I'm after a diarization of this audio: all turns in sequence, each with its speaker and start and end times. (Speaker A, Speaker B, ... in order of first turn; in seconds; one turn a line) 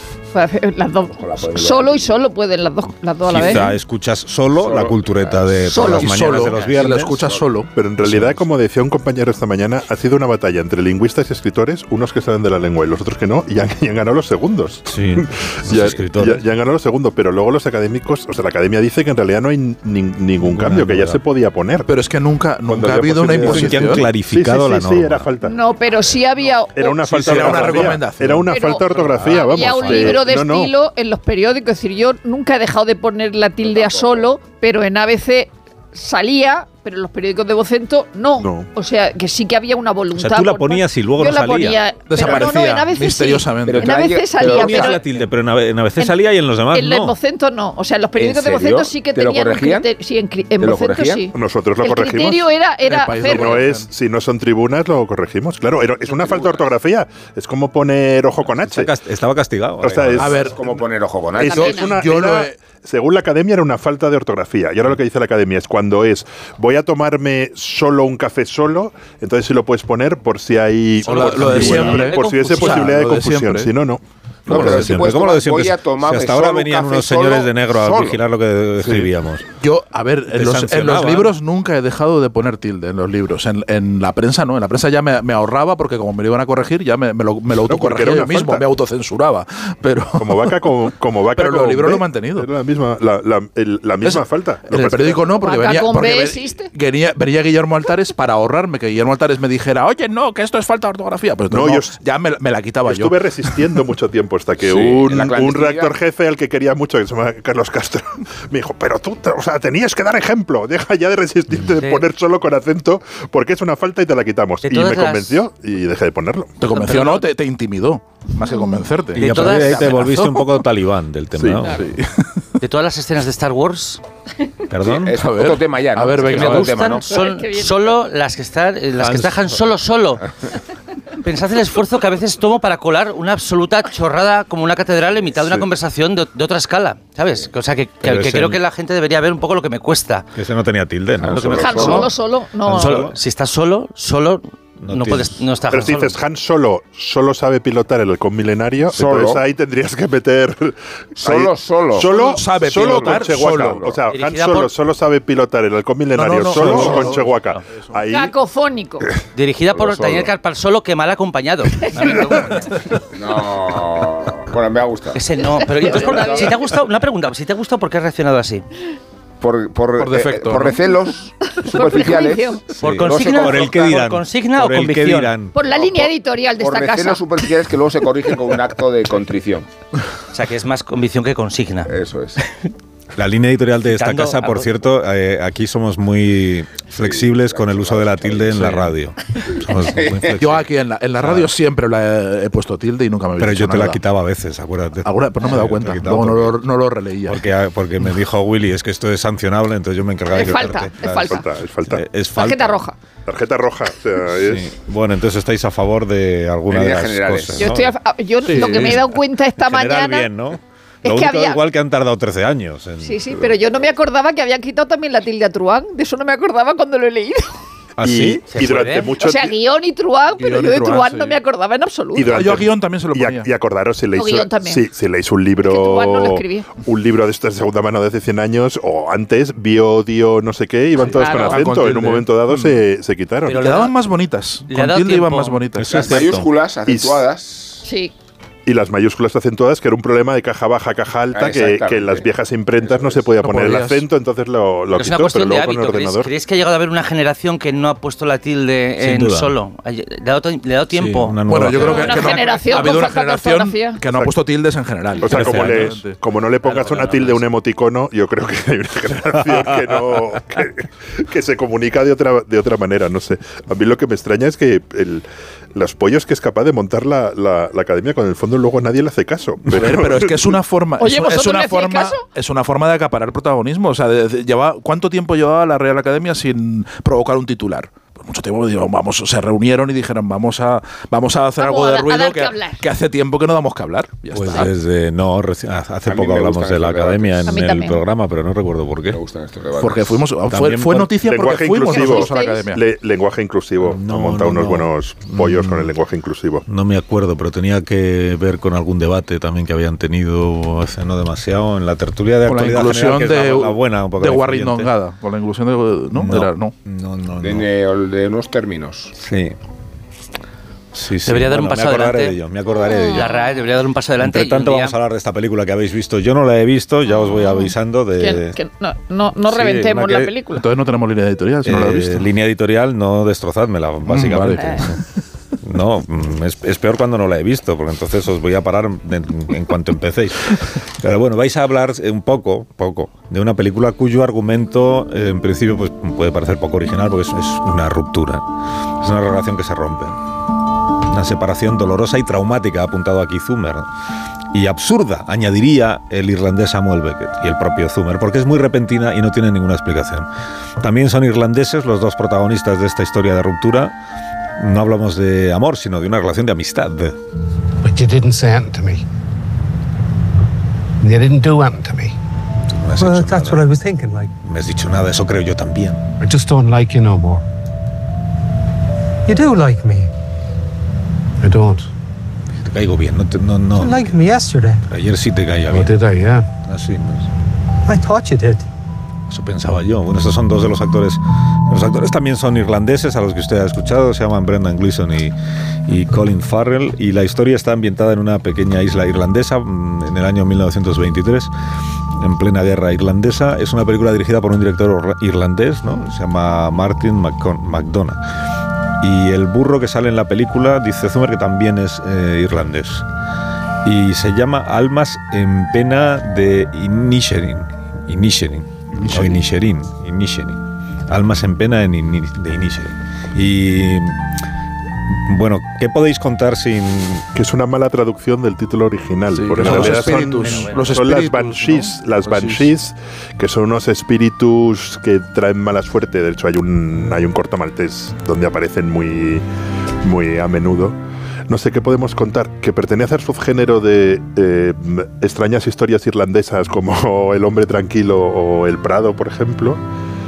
Speaker A: 0.3-3.6
Speaker B: 1.1-2.2
Speaker C: 3.3-7.2
Speaker B: 4.5-6.0
Speaker A: 5.7-6.2
Speaker D: 5.9-7.7
Speaker B: 6.6-7.5
Speaker E: 7.7-21.9
Speaker C: 8.0-8.4
Speaker C: 14.8-16.4
Speaker C: 20.4-21.2
Speaker D: 21.9-24.1
Speaker E: 22.6-25.6
Speaker C: 23.4-25.3
Speaker A: 25.4-27.8
Speaker E: 26.7-30.7
Speaker D: 27.0-29.4
Speaker A: 28.5-45.0
Speaker B: 33.6-34.3
Speaker E: 38.4-38.7
Speaker C: 40.1-41.8
Speaker D: 42.1-43.9
Speaker B: 42.2-42.5
Speaker B: 43.6-45.0
Speaker C: 44.4-47.1
Speaker A: 46.7-53.5
Speaker B: 48.2-49.9
Speaker B: 50.6-51.3
Speaker E: 51.3-52.4
Speaker D: 52.9-53.9
Speaker E: 53.2-58.9
Speaker B: 56.1-56.7
Speaker C: 58.6-60.3
Speaker E: 59.8-60.6
Speaker D: 60.2-60.6
Speaker B: 60.3-61.8
Speaker E: 61.4-75.1
Speaker A: 61.4-62.0
Speaker D: 61.4-62.5
Speaker D: 71.0-73.7
Speaker C: 71.5-72.1
Speaker B: 74.5-78.2
Speaker D: 74.5-74.9
Speaker C: 74.6-79.4
Speaker E: 78.8-79.1
Speaker D: 79.6-90.5
Speaker C: 80.3-81.3
Speaker E: 87.7-88.7
Speaker E: 90.2-95.3
Speaker D: 91.3-92.5
Speaker D: 94.0-103.2
Speaker A: 95.4-96.7
Speaker E: 101.5-102.0
Speaker E: 102.8-116.5
Speaker B: 104.6-105.9
Speaker F: 111.7-112.0
Speaker F: 114.6-115.4
Speaker D: 116.6-119.3
Speaker F: 116.7-117.2
Speaker A: 118.5-118.8
Speaker F: 119.1-120.5
Speaker C: 119.1-121.9
Speaker E: 121.4-121.6
Speaker D: 121.7-122.4
Speaker F: 122.6-124.0
Speaker C: 124.7-125.2
Speaker B: 124.8-127.1
Speaker D: 125.2-126.8
Speaker F: 126.2-130.3
Speaker A: 127.1-128.0
Speaker C: 129.0-129.6
Speaker F: 131.2-140.3
Speaker C: 138.0-138.6
Speaker C: 140.3-142.0
Speaker B: 141.2-142.1
Speaker F: 141.3-142.1
Speaker A: 141.6-143.1
Speaker C: 142.6-143.2
Speaker F: 142.7-146.2
Speaker C: 144.8-145.4
Speaker E: 145.7-158.3
Speaker B: 148.9-149.4
Speaker B: 151.2-152.1
Speaker D: 152.1-153.8
Speaker B: 152.8-154.0
Speaker F: 154.1-154.7
Speaker D: 156.1-157.9
Speaker C: 156.6-156.9
Speaker A: 158.1-159.1
Speaker F: 159.3-162.4
Speaker B: 159.7-160.3
Speaker B: 163.1-165.2
Speaker F: 165.1-168.6
Speaker A: 165.4-166.6
Speaker B: 165.8-166.5
Speaker B: 169.4-174.0
Speaker D: 170.0-170.8
Speaker A: 171.6-172.6
Speaker F: 172.8-175.3
Speaker C: 172.9-175.5
Speaker A: 175.5-177.5
Speaker B: 175.6-179.7
Speaker F: 180.3-181.9
Speaker B: 181.8-182.4
Speaker C: 183.2-191.5
Speaker F: 183.9-184.7
Speaker B: 186.9-188.6
Speaker B: 189.5-190.5
Speaker D: 190.4-194.0
Speaker C: 193.4-196.6
Speaker D: 195.0-197.4
Speaker C: 197.3-202.8
Speaker A: 200.3-201.4
Speaker E: 201.3-202.1
Speaker A: 202.3-202.9
Speaker E: 203.2-204.7
Speaker C: 204.3-207.9
Speaker B: 206.7-207.7
Speaker A: 207.6-210.3
Speaker D: 208.4-209.0
Speaker C: 208.5-213.2
Speaker A: 211.0-211.6
Speaker A: 213.0-217.5
Speaker C: 218.0-218.4
Speaker E: 218.0-219.5
Speaker F: 218.5-219.1
Speaker A: 219.2-222.4
Speaker D: 220.4-221.4
Speaker E: 222.1-233.6
Speaker D: 222.2-223.5
Speaker A: 224.1-224.8
Speaker A: 225.6-226.7
Speaker D: 231.0-232.8
Speaker A: 231.1-231.6
Speaker F: 233.4-233.9
Speaker D: 233.6-236.0
Speaker F: 234.7-236.1
Speaker C: 235.8-236.5
Speaker B: 235.9-237.8
Speaker E: 236.9-237.2
Speaker A: 237.8-238.1
Speaker E: 238.7-246.3
Speaker B: 241.3-242.3
Speaker B: 242.8-243.2
Speaker D: 243.4-244.1
Speaker F: 244.9-251.6
Speaker C: 249.0-249.5
Speaker C: 250.9-252.4
Speaker D: 251.5-256.2
Speaker A: 251.8-254.0
Speaker E: 255.2-270.5
Speaker C: 255.3-255.9
Speaker F: 256.6-257.4
Speaker C: 259.5-259.9
Speaker D: 269.7-284.7
Speaker A: 271.0-272.2
Speaker A: 281.6-282.8
Speaker C: 284.3-289.2
Speaker B: 286.1-287.5
Speaker A: 287.5-288.0
Speaker B: 289.1-290.2
Speaker D: 289.8-292.8
Speaker C: 290.5-291.1
Speaker E: 291.2-296.6
Speaker A: 291.8-292.6
Speaker C: 293.8-295.9
Speaker C: 296.7-304.9
Speaker D: 302.4-306.7
Speaker C: 306.1-307.6
Speaker B: 307.4-309.1
Speaker C: 309.2-309.6
Speaker C: 310.9-313.3
Speaker F: 311.2-312.4
Speaker A: 312.8-313.3
Speaker F: 313.1-314.9
Speaker C: 314.2-318.6
Speaker A: 317.2-320.6
Speaker C: 319.3-320.3
Speaker D: 320.5-322.3
Speaker C: 321.6-325.0
Speaker D: 324.1-325.0
Speaker A: 324.6-324.9
Speaker C: 325.6-338.4
Speaker C: 339.0-340.2
Speaker C: 341.1-343.9
Speaker C: 344.5-350.3
Speaker C: 350.8-353.9
Speaker C: 354.6-357.2
Speaker G: 357.8-359.0
Speaker G: 361.0-362.1
Speaker C: 362.7-363.6
Speaker H: 363.0-364.3
Speaker C: 364.4-366.0
Speaker G: 366.2-367.4
Speaker H: 369.3-370.1
Speaker G: 371.4-371.9
Speaker C: 372.5-374.2
Speaker H: 373.8-374.8
Speaker C: 374.9-377.3
Speaker G: 375.8-376.5
Speaker H: 377.8-378.7
Speaker C: 379.3-385.3
Speaker C: 385.9-391.5
Speaker C: 392.1-398.2
Speaker C: 399.0-403.1
Speaker C: 403.8-414.2
Speaker D: 408.9-409.4
Speaker C: 415.1-417.3
Speaker E: 417.3-429.4
Speaker D: 419.3-422.7
Speaker C: 419.6-420.0
Speaker E: 430.0-430.9
Speaker E: 431.5-439.8